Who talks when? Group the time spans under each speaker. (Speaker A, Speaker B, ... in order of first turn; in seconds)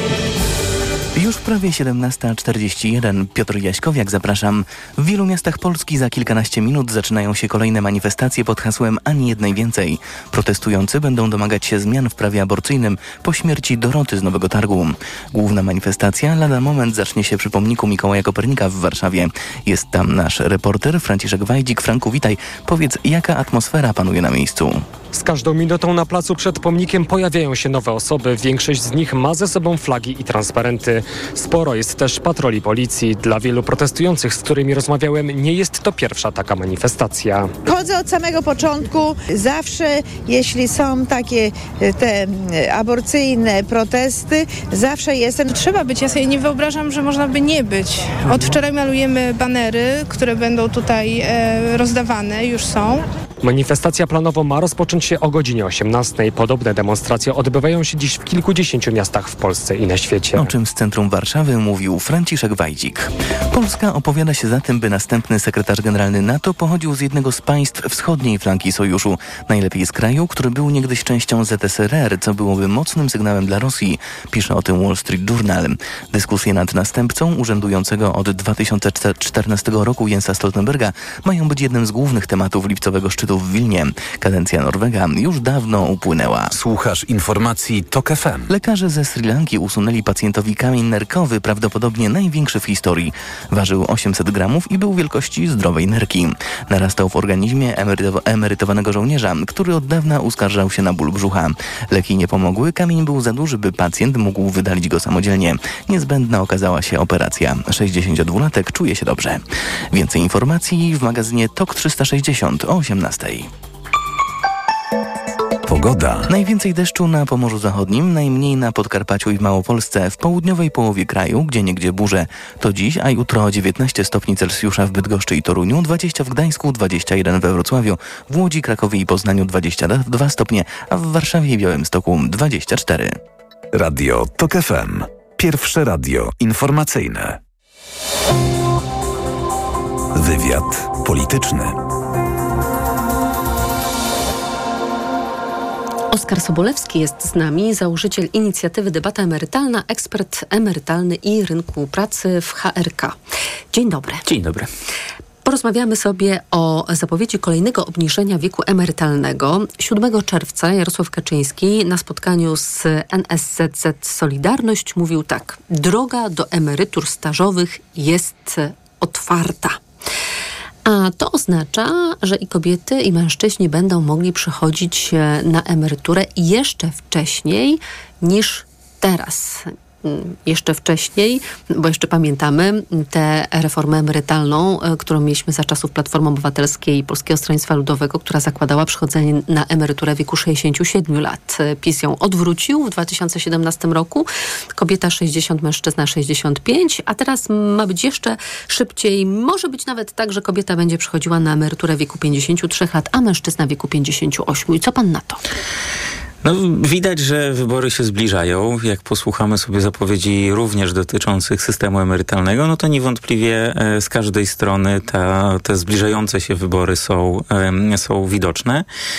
Speaker A: 1.1-24.9, 60.4-86.5, 88.5-109.4, 109.9-113.5, 116.3-133.2
Speaker B: 25.1-37.5, 53.4-60.5
Speaker C: 37.6-45.5
Speaker D: 45.6-53.0
Speaker E: 86.5-88.5, 115.7-116.3, 133.7-137.4, 140.1-141.8
Speaker F: 146.1-153.2, 153.7-154.2, 155.4-169.8, 170.8-205.4
Speaker G: 154.2-154.7, 206.4-218.8